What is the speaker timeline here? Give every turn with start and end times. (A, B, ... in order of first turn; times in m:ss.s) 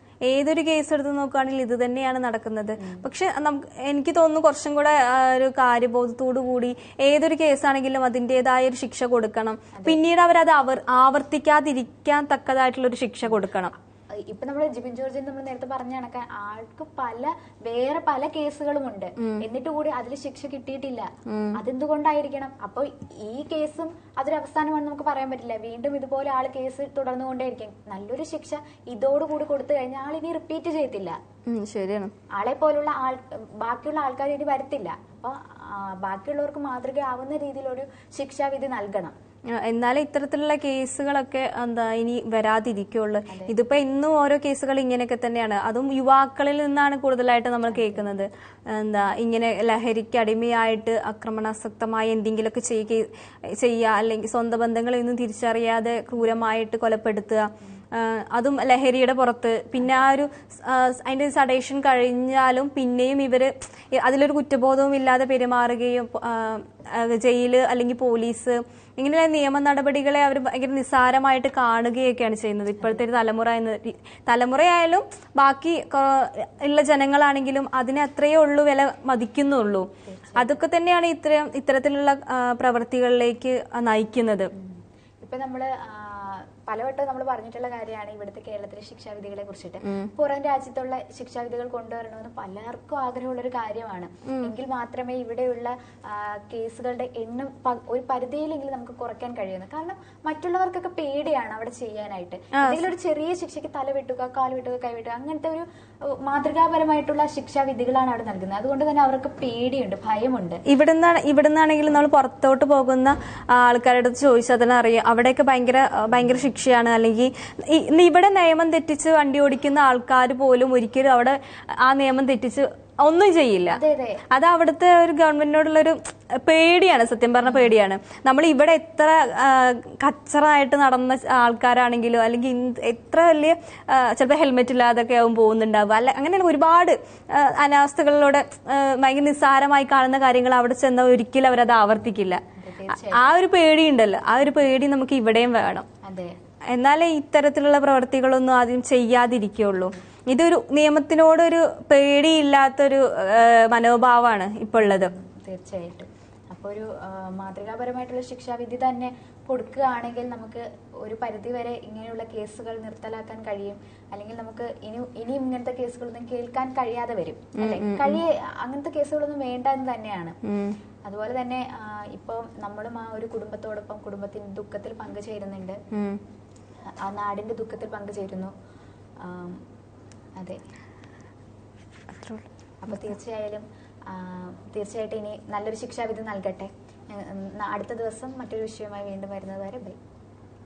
0:00.3-0:13.7 A
0:02.8-0:03.0 B
0:09.7-0:10.0 B
0:14.2-0:31.2 B
0:21.3-0:21.6 A
0:31.5-0:32.1 A
0:32.3-0:39.1 B
0:39.5-1:24.5 A
0:47.7-0:48.0 B
1:20.0-1:20.5 B
1:24.5-1:50.6 B
1:29.8-1:30.1 A
1:34.2-1:34.5 A
1:42.6-1:42.9 A
1:50.7-2:03.8 A
2:03.7-2:04.2 B
2:04.3-2:22.4 A
2:07.4-2:07.7 B
2:22.6-2:23.2 B
2:23.1-2:25.9 A
2:26.0-2:26.4 B
2:26.7-2:35.1 A
2:34.8-2:50.4 B
2:47.6-2:48.2 A
2:50.4-2:50.8 A
2:51.0-2:55.8 B
2:55.9-2:56.2 A
2:56.9-2:58.5 B
2:59.2-2:59.6 B
3:02.1-3:03.1 A
3:02.8-3:10.0 B